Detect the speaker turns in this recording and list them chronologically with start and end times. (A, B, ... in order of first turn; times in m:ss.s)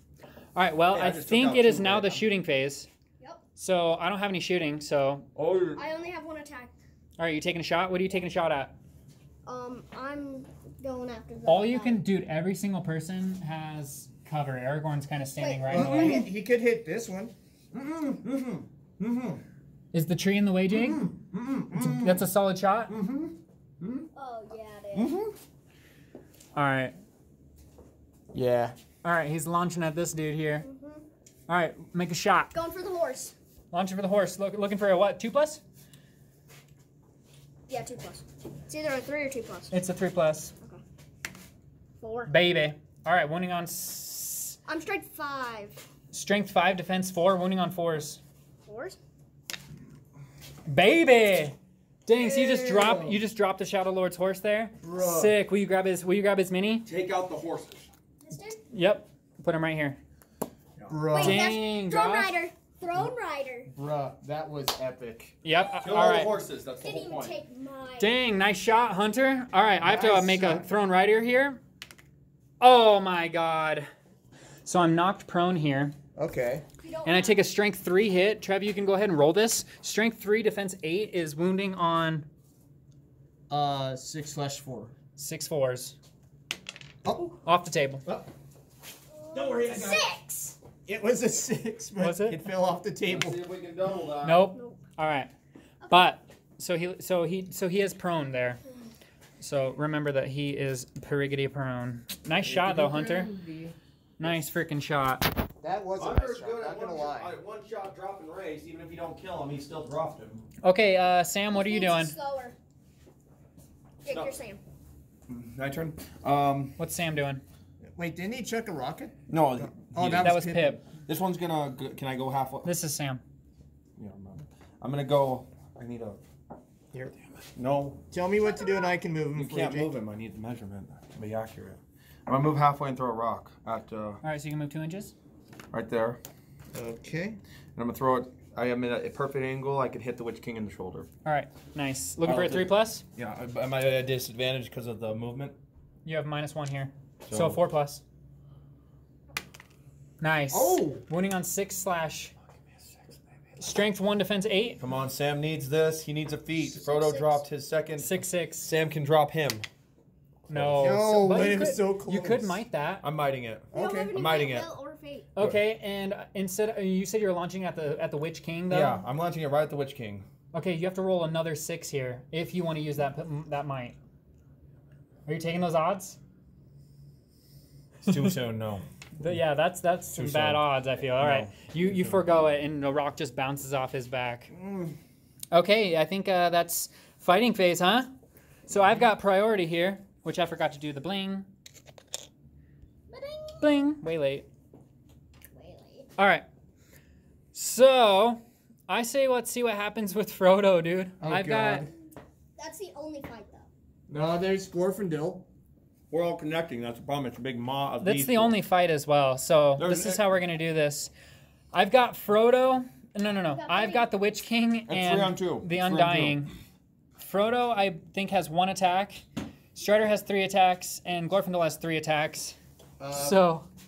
0:00.5-0:02.9 A
0:00.9-0:02.3 B
0:03.6-0:05.3 A
0:05.4-0:05.8 B
0:05.8-0:06.7 C
0:07.2-0:08.7 A
0:09.4-0:12.0 C
0:11.4-0:16.2 A
0:15.4-0:16.3 C
0:15.7-0:18.1 D
0:17.8-0:18.6 B
0:19.0-0:19.4 D
0:19.9-0:21.1 A
0:20.7-0:22.2 D
0:21.7-0:23.0 A
0:22.9-0:24.0 D
0:24.1-0:25.1 C
0:25.0-0:25.3 D
0:26.5-0:27.0 A
0:28.3-0:28.8 D
0:29.0-0:30.6 A
0:30.6-0:31.0 C
0:31.5-0:32.5 A
0:32.5-0:33.3 C
0:33.7-0:35.6 A
0:37.7-0:39.7 C
0:39.7-0:40.5 A
0:42.0-0:42.3 C
0:42.3-0:44.6 A
0:44.6-0:45.8 C
0:46.1-0:48.2 A
0:48.6-0:49.0 C
0:50.7-0:56.8 A
0:52.1-0:53.2 D
0:54.8-0:55.4 D
0:56.8-0:57.8 B
0:58.2-0:58.6 C
0:58.7-1:00.0 A
1:00.8-1:01.0 B
1:00.9-1:01.6 D
1:01.1-1:03.7 C
1:01.2-1:02.4 A
1:03.7-1:05.4 D
1:05.4-1:06.3 A
1:05.8-1:07.4 B
1:06.8-1:08.1 C
1:08.0-1:11.6 A
1:09.8-1:10.7 D
1:12.6-1:13.9 A
1:14.6-1:16.0 A
1:16.2-1:16.6 D
1:16.8-1:17.4 C
1:17.0-1:22.3 A
1:23.5-1:24.9 D
1:25.2-1:26.0 A
1:27.0-1:27.3 D
1:27.4-1:28.0 A
1:29.1-1:30.6 C
1:29.3-1:30.1 D
1:30.8-1:33.4 D
1:32.0-1:32.4 A
1:33.0-1:34.5 B
1:34.2-1:35.3 A
1:35.8-1:36.1 C
1:35.9-1:38.6 A
1:39.4-1:43.3 A
1:42.4-1:43.7 D
1:44.2-1:45.3 A
1:45.6-1:47.3 D
1:46.0-1:50.4 B
1:50.6-1:52.1 A
1:51.5-1:52.6 C
1:54.0-1:54.6 C
1:55.3-1:56.8 B
1:56.8-1:57.4 A
1:57.9-2:00.8 D
1:59.3-2:00.4 B
2:00.1-2:00.8 A
2:01.0-2:02.7 B
2:02.6-2:03.2 A
2:04.0-2:06.2 B
2:07.6-2:08.0 B
2:08.1-2:09.9 D
2:08.4-2:09.0 C
2:09.3-2:14.2 B
2:14.2-2:15.1 A
2:15.7-2:16.2 B
2:16.7-2:17.4 D
2:17.8-2:21.1 B
2:21.2-2:23.0 A
2:22.2-2:25.6 B
2:26.0-2:28.0 A
2:27.3-2:27.6 B
2:30.2-2:32.3 A
2:30.5-2:31.0 D
2:32.8-2:33.2 B
2:33.6-2:34.8 A
2:34.8-2:39.6 B
2:36.7-2:37.4 C
2:38.0-2:38.7 A
2:40.5-2:41.0 B
2:40.5-2:43.0 A
2:40.8-2:42.6 D
2:43.0-2:44.7 B
2:43.7-2:44.2 D
2:43.7-2:45.3 C
2:45.3-2:49.0 A
2:48.7-2:50.2 B
2:50.5-2:54.0 A
2:55.2-2:56.2 A
2:58.0-2:58.3 A
2:58.1-2:58.8 B
2:59.2-3:04.5 A
3:00.1-3:02.2 B
3:04.5-3:05.0 B
3:05.5-3:08.1 A
3:08.7-3:11.5 A
3:13.1-3:13.8 C
3:13.6-3:14.5 A
3:15.5-3:16.1 C
3:16.2-3:16.4 A
3:17.5-3:21.9 A
3:21.2-3:21.9 D
3:22.6-3:23.6 C
3:24.1-3:25.4 D
3:26.1-3:28.5 B
3:28.0-3:31.1 A
3:29.8-3:30.2 B
3:31.7-3:36.5 A
3:33.5-3:34.1 C
3:34.9-3:36.4 B
3:37.2-3:42.6 A
3:43.0-3:43.5 D
3:43.1-3:43.7 A